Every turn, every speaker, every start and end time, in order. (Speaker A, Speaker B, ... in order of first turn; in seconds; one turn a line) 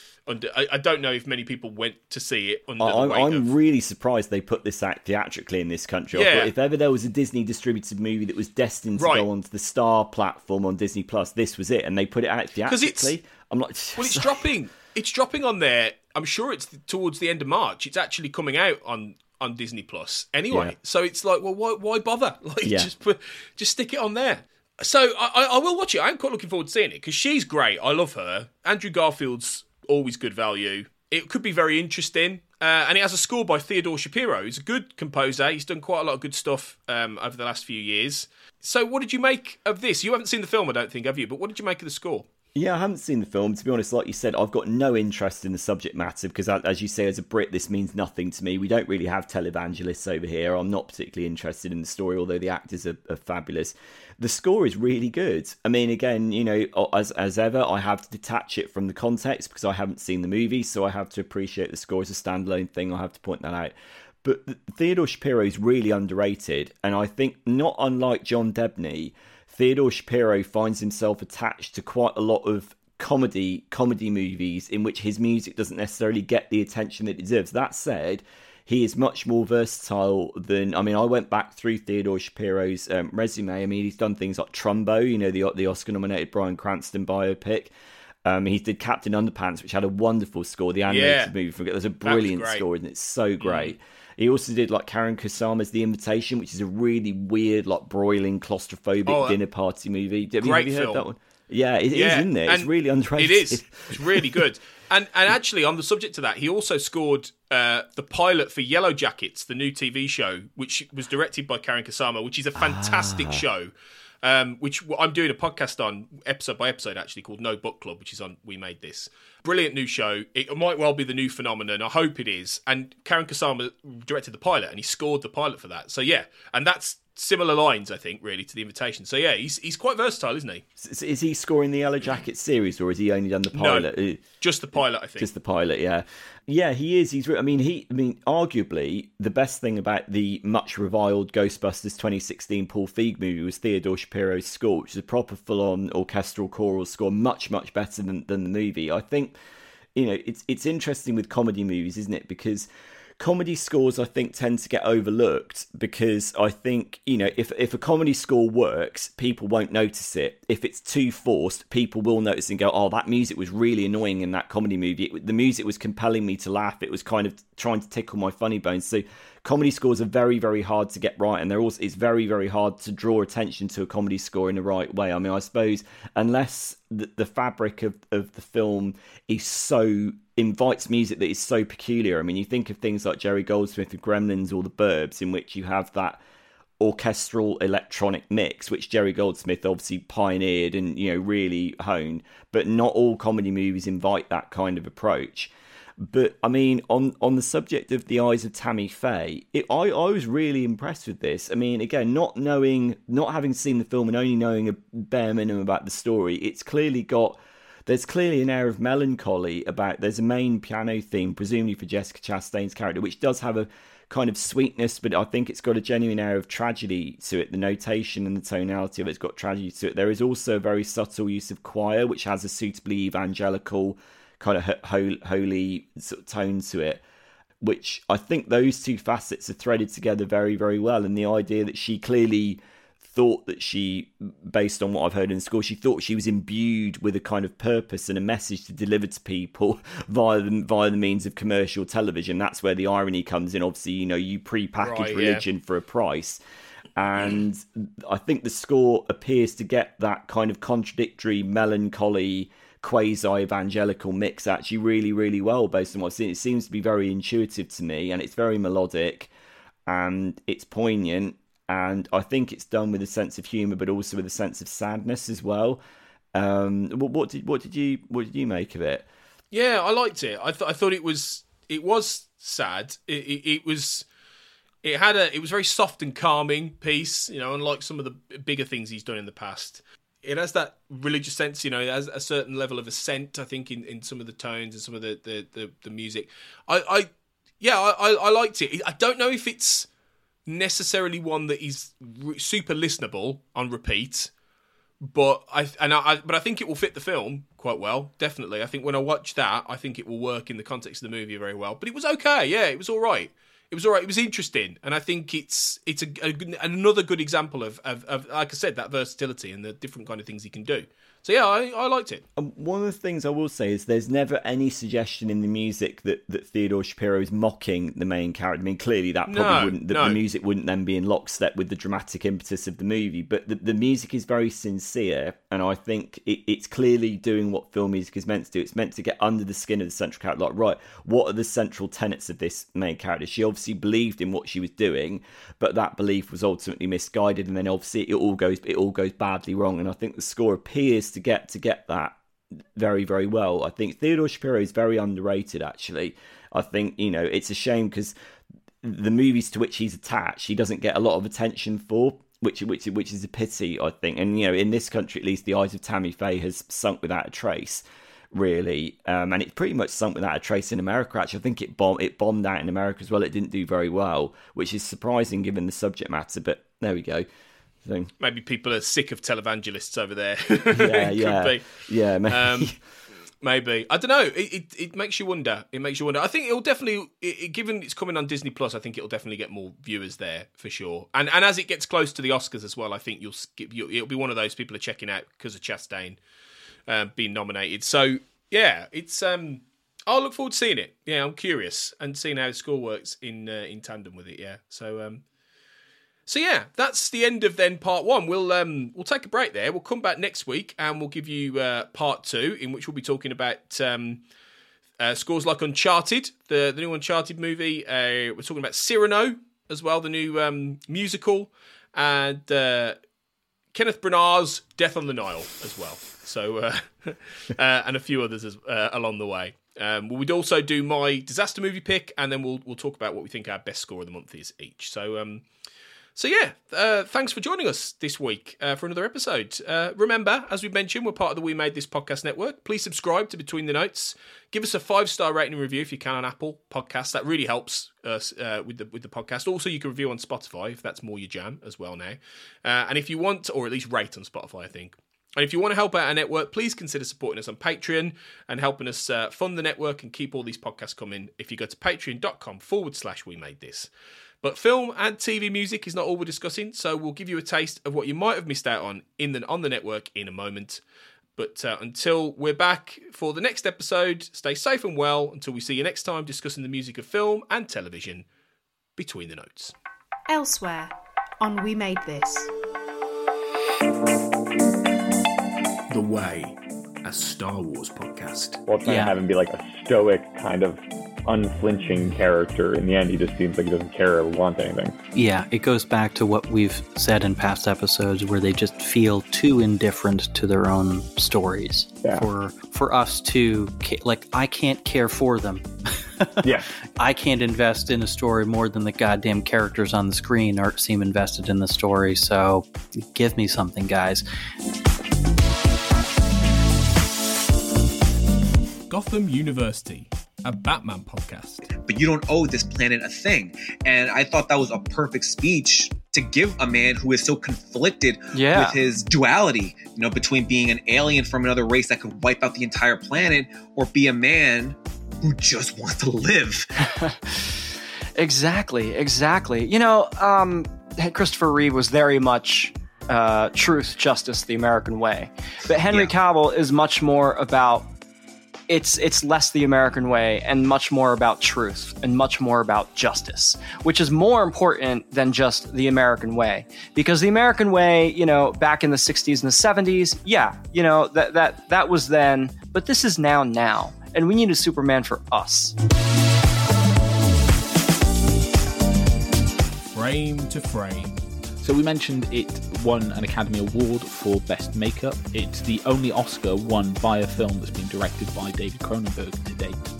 Speaker A: 0.3-3.5
Speaker B: 2.8-14.4
Speaker A: 6.1-6.5
Speaker A: 8.9-9.3
Speaker A: 12.7-13.1
Speaker A: 13.9-42.3
Speaker B: 22.6-22.9
Speaker B: 42.5-87.7
Speaker B: 88.2-104.4
Speaker A: 90.9-91.3
Speaker A: 92.0-92.6
Speaker A: 93.4-93.7
Speaker A: 99.0-99.4
Speaker A: 100.4-101.0
Speaker A: 101.9-130.6
Speaker B: 112.6-113.4
Speaker B: 130.8-134.2
Speaker A: 133.5-135.3
Speaker B: 135.2-149.3
Speaker B: 149.9-152.7
Speaker B: 153.2-186.2
Speaker B: 186.8-227.0
Speaker B: 227.6-246.4
Speaker A: 244.8-245.4
Speaker B: 246.9-259.3
Speaker B: 259.9-265.8
Speaker B: 266.3-269.1
Speaker A: 269.5-274.1
Speaker A: 274.8-287.1
Speaker A: 287.6-289.9
Speaker A: 290.4-294.3
Speaker A: 295.0-312.2
Speaker B: 312.4-342.1
Speaker A: 319.3-320.2
Speaker B: 342.7-348.1
Speaker B: 348.8-367.2
Speaker B: 367.8-368.1
Speaker A: 368.2-372.7
Speaker B: 370.7-372.7
Speaker A: 373.4-386.2
Speaker A: 386.9-395.2
Speaker A: 396.3-404.2
Speaker A: 405.0-413.0
Speaker A: 413.7-425.4
Speaker A: 426.1-453.9
Speaker A: 454.4-460.8
Speaker A: 461.4-468.2
Speaker A: 469.0-469.7
Speaker C: 470.3-472.5
Speaker A: 475.9-478.6
Speaker D: 478.7-484.9
Speaker E: 478.8-479.1
Speaker E: 485.1-495.7
Speaker E: 496.2-504.2
Speaker A: 508.9-511.7
Speaker F: 511.8-526.7
Speaker G: 518.3-518.8
Speaker G: 526.8-527.2
Speaker G: 528.1-537.9
Speaker F: 535.9-536.1
Speaker G: 538.7-555.8
Speaker A: 559.9-561.1
Speaker H: 561.6-569.8